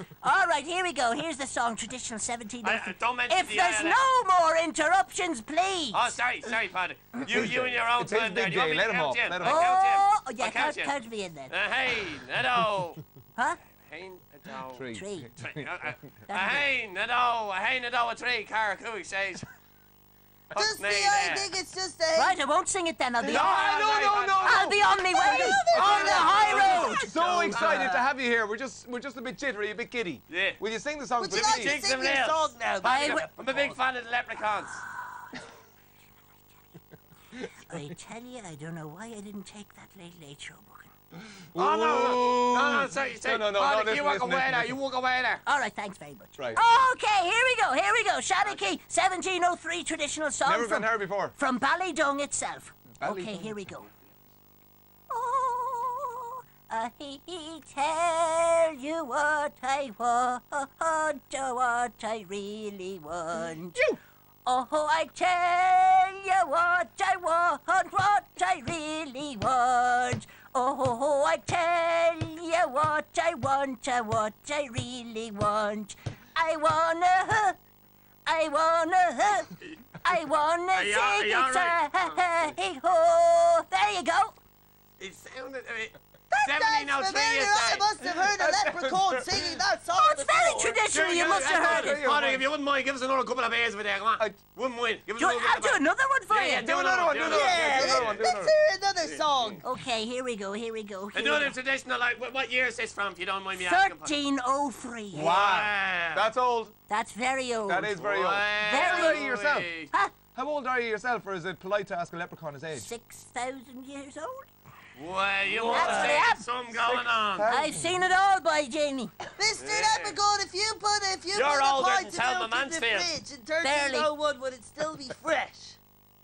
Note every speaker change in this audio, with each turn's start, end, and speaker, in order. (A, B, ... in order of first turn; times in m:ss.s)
0:00.2-0:06.1 A
0:02.6-0:04.0 B
0:05.9-0:10.9 B
0:07.2-0:09.7 C
0:09.4-0:11.5 A
0:11.5-0:13.0 B
0:13.7-0:14.9 B
0:14.7-0:16.0 C
0:14.9-0:15.3 A
0:15.4-0:19.5 B
0:16.3-0:16.6 A
0:20.5-0:22.4 D
0:20.5-0:21.5 B
0:22.2-0:23.6 A
0:23.2-0:24.7 B
0:23.2-0:31.8 C
0:24.4-0:27.6 A
0:25.1-0:28.0 D
0:25.7-0:27.0 B
0:27.5-0:27.9 B
0:30.3-0:30.6 B
0:31.2-0:33.8 D
0:31.3-0:34.8 B
0:32.8-0:33.3 A
0:34.8-0:35.4 A
0:36.5-0:36.8 A
0:37.4-0:37.8 C
0:37.7-0:40.9 A
0:41.2-0:44.8 C
0:41.6-0:45.4 B
0:45.5-0:53.9 A
0:50.4-0:51.4 C
0:52.9-0:53.6 C
0:55.1-1:03.8 A
1:04.4-1:17.6 A
1:18.3-1:19.5 A
1:20.0-1:24.4 A
1:20.8-1:22.2 B
1:25.0-1:27.9 B
1:26.3-1:30.8 D
1:28.2-1:29.6 C
1:30.0-1:32.0 A
1:31.0-1:38.2 B
1:31.0-1:32.5 C
1:35.2-1:36.7 A
1:36.6-1:38.5 C
1:37.2-1:39.6 D
1:39.0-1:39.6 B
1:39.6-1:41.6 A
1:41.1-1:44.1 B
1:43.5-1:45.3 A
1:45.1-1:46.7 C
1:45.1-1:46.3 B
1:46.9-1:48.0 A
1:47.7-1:49.7 C
1:48.0-1:49.9 B
1:48.6-1:49.2 A
1:50.4-1:52.9 C
1:52.7-1:54.5 A
1:55.0-1:57.5 B
1:55.5-1:56.3 D
1:55.7-1:56.5 A
1:56.8-1:58.0 C
1:57.5-1:59.1 A
1:59.4-2:05.8 D
1:59.6-2:00.2 B
2:01.3-2:03.1 B
2:03.6-2:04.1 A